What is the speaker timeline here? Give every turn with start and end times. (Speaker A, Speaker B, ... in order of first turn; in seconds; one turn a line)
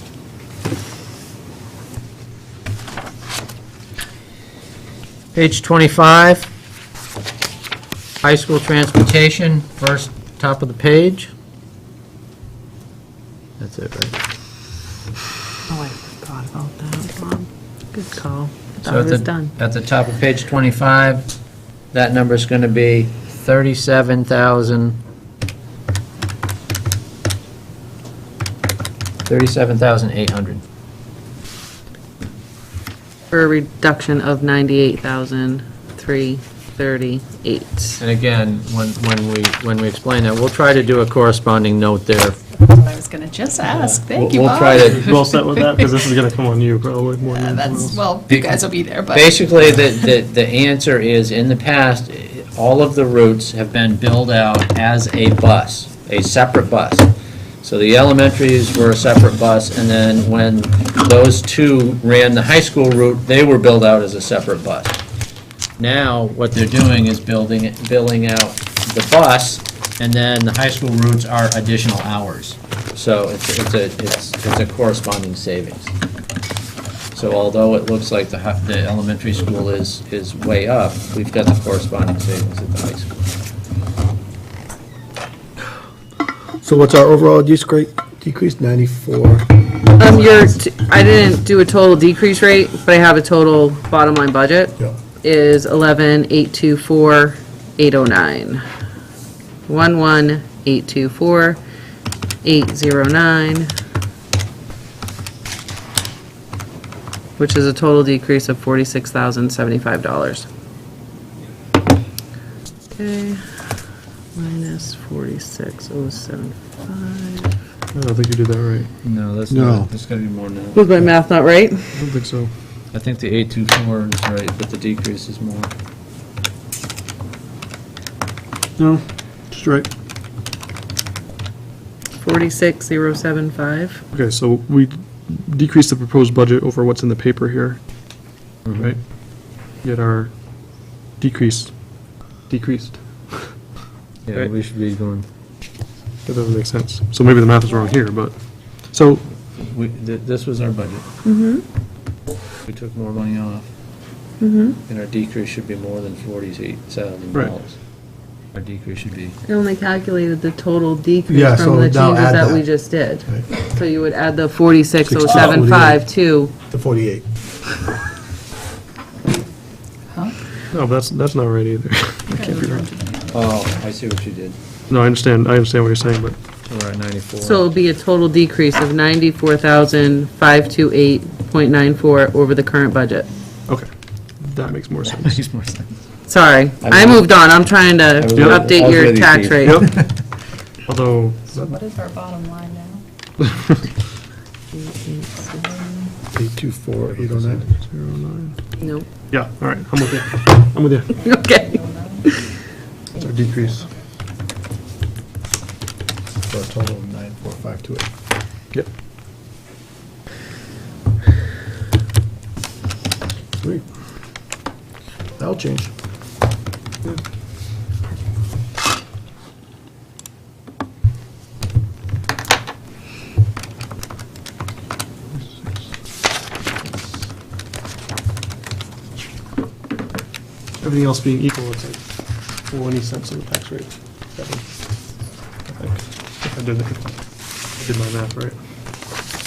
Speaker A: 5.3-6.5
Speaker A: 8.2-11.3
Speaker A: 13.6-14.2
Speaker B: 15.7-19.5
Speaker A: 18.8-21.3
Speaker A: 21.9-25.0
Speaker A: 29.2-30.6
Speaker B: 33.3-38.0
Speaker A: 38.0-42.4
Speaker C: 42.7-46.0
Speaker A: 43.7-45.1
Speaker D: 44.8-48.0
Speaker C: 47.3-49.8
Speaker A: 48.3-57.1
Speaker A: 57.6-65.0
Speaker A: 65.8-76.0
Speaker A: 77.1-83.3
Speaker E: 86.6-89.5
Speaker B: 90.0-98.6
Speaker B: 99.7-101.6
Speaker B: 102.4-103.7
Speaker B: 107.4-110.5
Speaker B: 112.9-113.4
Speaker B: 114.3-117.5
Speaker D: 117.9-118.9
Speaker A: 119.0-120.9
Speaker E: 119.5-119.9
Speaker B: 120.8-121.9
Speaker D: 122.0-122.5
Speaker A: 122.9-125.7
Speaker D: 128.8-129.9
Speaker B: 132.2-134.0
Speaker D: 134.1-137.8
Speaker D: 138.7-139.1
Speaker D: 139.7-140.4
Speaker D: 141.2-141.8
Speaker D: 142.5-143.5
Speaker A: 144.3-145.3
Speaker D: 146.3-148.3
Speaker D: 148.9-149.2
Speaker A: 149.5-151.1
Speaker B: 151.2-151.7
Speaker A: 152.7-153.7
Speaker B: 154.4-154.8
Speaker A: 154.9-157.8
Speaker A: 158.5-159.4
Speaker B: 159.5-166.5
Speaker E: 161.3-163.5
Speaker D: 165.1-165.7
Speaker E: 165.3-166.1
Speaker E: 166.7-167.2
Speaker C: 170.1-170.4
Speaker D: 170.7-172.8
Speaker C: 172.3-173.8
Speaker A: 173.3-174.6
Speaker D: 174.9-176.4
Speaker A: 176.7-177.6
Speaker B: 177.4-183.3
Speaker D: 183.7-185.3
Speaker A: 185.2-185.9
Speaker B: 186.3-189.8
Speaker A: 186.8-187.3
Speaker A: 188.2-190.1
Speaker D: 188.3-188.7
Speaker D: 189.7-189.9
Speaker D: 190.9-191.7
Speaker C: 191.6-193.0
Speaker B: 194.7-195.8
Speaker C: 195.7-196.0
Speaker E: 196.4-197.7
Speaker D: 197.1-198.6
Speaker B: 198.8-199.1
Speaker D: 199.3-201.2
Speaker B: 201.2-202.6
Speaker C: 201.3-202.2
Speaker D: 203.1-203.9
Speaker E: 206.5-208.1
Speaker E: 213.6-213.9
Speaker E: 215.4-215.9
Speaker D: 230.8-232.1
Speaker D: 232.6-234.7
Speaker D: 235.7-238.6